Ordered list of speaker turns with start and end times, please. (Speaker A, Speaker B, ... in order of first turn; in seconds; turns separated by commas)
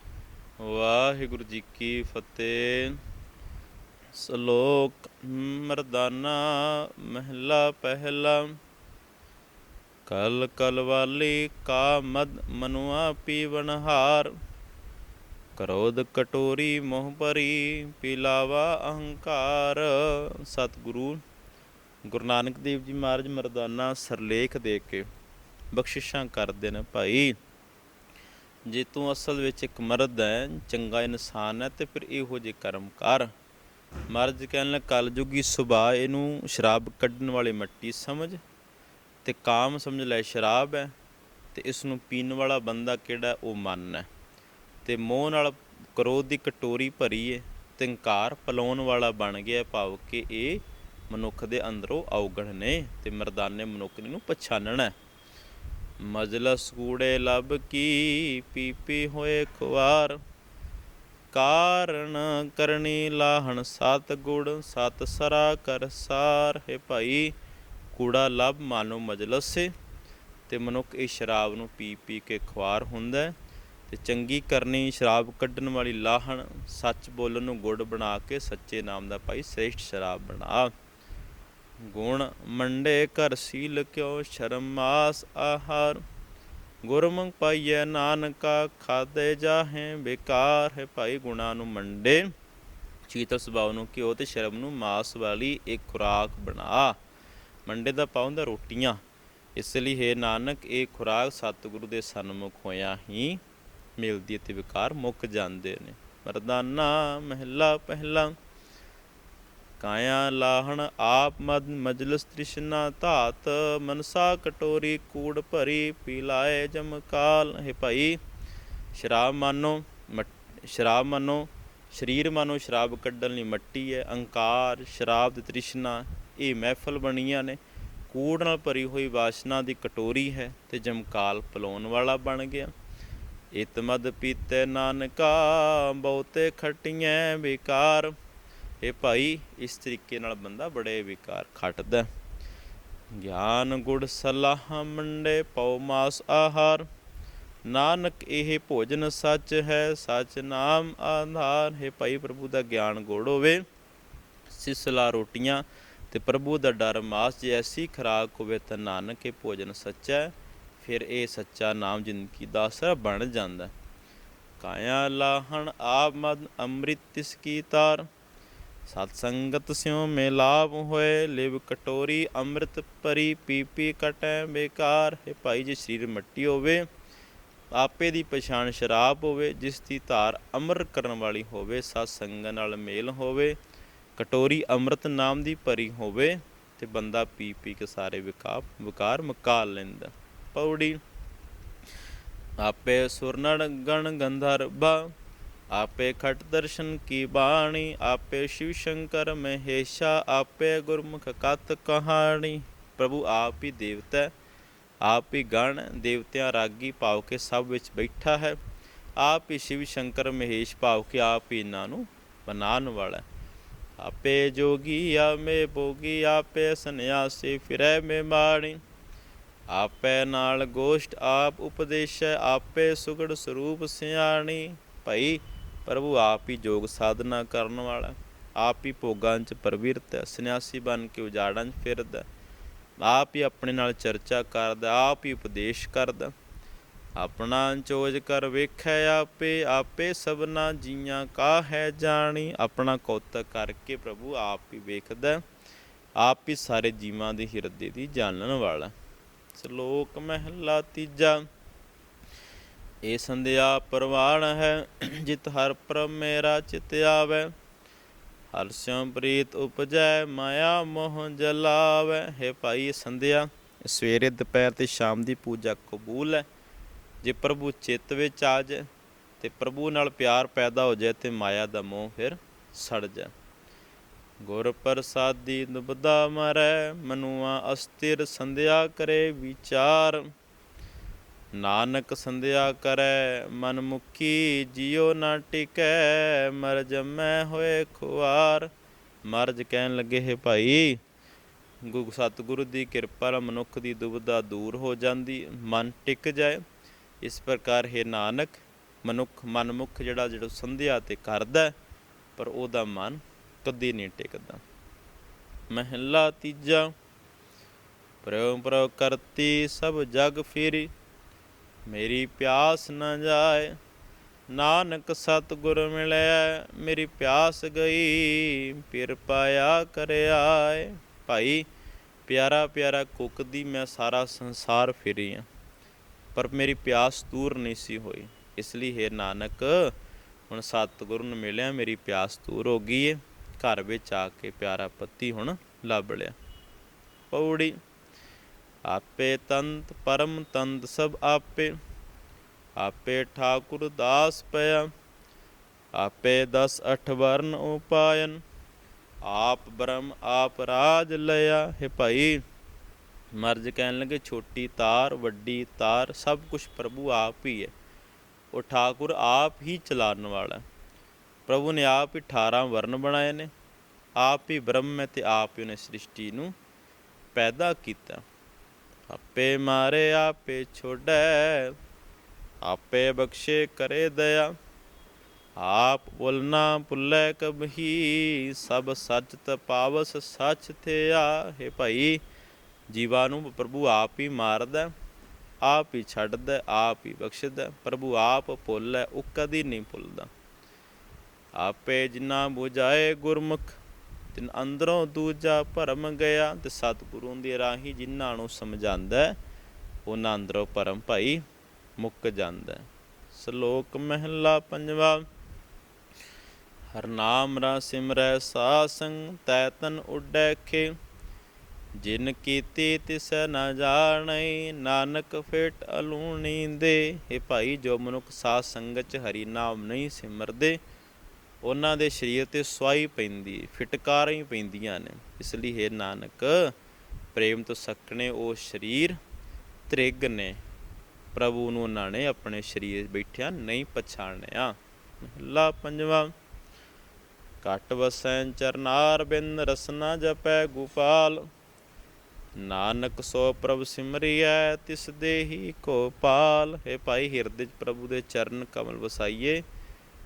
Speaker A: 0.6-3.0, Speaker A: 4.1-8.5, Speaker A: 10.1-14.3, Speaker A: 15.6-21.2, Speaker A: 22.1-25.1, Speaker A: 25.7-27.3, Speaker A: 28.7-33.3, Speaker A: 34.1-38.4, Speaker A: 39.2-40.9, Speaker A: 41.5-44.1, Speaker A: 44.8-54.9, Speaker A: 56.0-60.2, Speaker A: 61.3-67.3, Speaker A: 67.9-69.7, Speaker A: 70.5-73.3, Speaker A: 73.9-80.7, Speaker A: 81.8-86.0, Speaker A: 86.8-92.2, Speaker A: 93.1-97.0, Speaker A: 97.7-99.0, Speaker A: 99.5-103.4, Speaker A: 104.0-108.3, Speaker A: 109.8-118.2, Speaker A: 118.9-127.6, Speaker A: 128.1-132.7, Speaker A: 133.5-138.1, Speaker A: 138.8-142.1, Speaker A: 143.2-146.9, Speaker A: 147.7-153.6, Speaker A: 154.5-163.7, Speaker A: 164.6-168.1, Speaker A: 168.8-176.8, Speaker A: 177.7-183.6, Speaker A: 184.2-191.0, Speaker A: 192.6-195.1, Speaker A: 195.7-204.3, Speaker A: 205.0-208.6, Speaker A: 209.2-213.2, Speaker A: 214.0-218.8, Speaker A: 219.7-232.2, Speaker A: 233.0-236.3, Speaker A: 237.2-245.4, Speaker A: 246.2-248.9, Speaker A: 249.5-251.4, Speaker A: 253.0-257.5, Speaker A: 258.5-266.4, Speaker A: 267.2-268.9, Speaker A: 269.4-273.3, Speaker A: 274.4-280.3, Speaker A: 281.6-288.7, Speaker A: 289.2-291.0, Speaker A: 291.8-296.6, Speaker A: 297.2-301.7, Speaker A: 302.4-304.6, Speaker A: 305.7-306.9, Speaker A: 308.2-310.9, Speaker A: 311.9-313.8, Speaker A: 314.5-321.6, Speaker A: 322.3-325.4, Speaker A: 326.3-329.9, Speaker A: 330.5-336.3, Speaker A: 337.3-337.8, Speaker A: 338.9-341.8, Speaker A: 342.8-344.9, Speaker A: 345.9-348.4, Speaker A: 349.2-352.4, Speaker A: 353.4-357.7, Speaker A: 358.5-360.6, Speaker A: 361.5-363.5, Speaker A: 364.2-366.5, Speaker A: 367.3-368.2, Speaker A: 369.1-371.7, Speaker A: 372.6-374.5, Speaker A: 375.6-382.2, Speaker A: 382.9-384.9, Speaker A: 385.6-390.3, Speaker A: 391.6-393.8, Speaker A: 394.3-399.4, Speaker A: 400.1-401.4, Speaker A: 402.0-405.2, Speaker A: 406.9-410.9, Speaker A: 412.0-420.8, Speaker A: 421.6-426.7, Speaker A: 427.3-429.2, Speaker A: 429.9-430.6, Speaker A: 431.3-436.3, Speaker A: 437.6-441.4, Speaker A: 442.6-449.6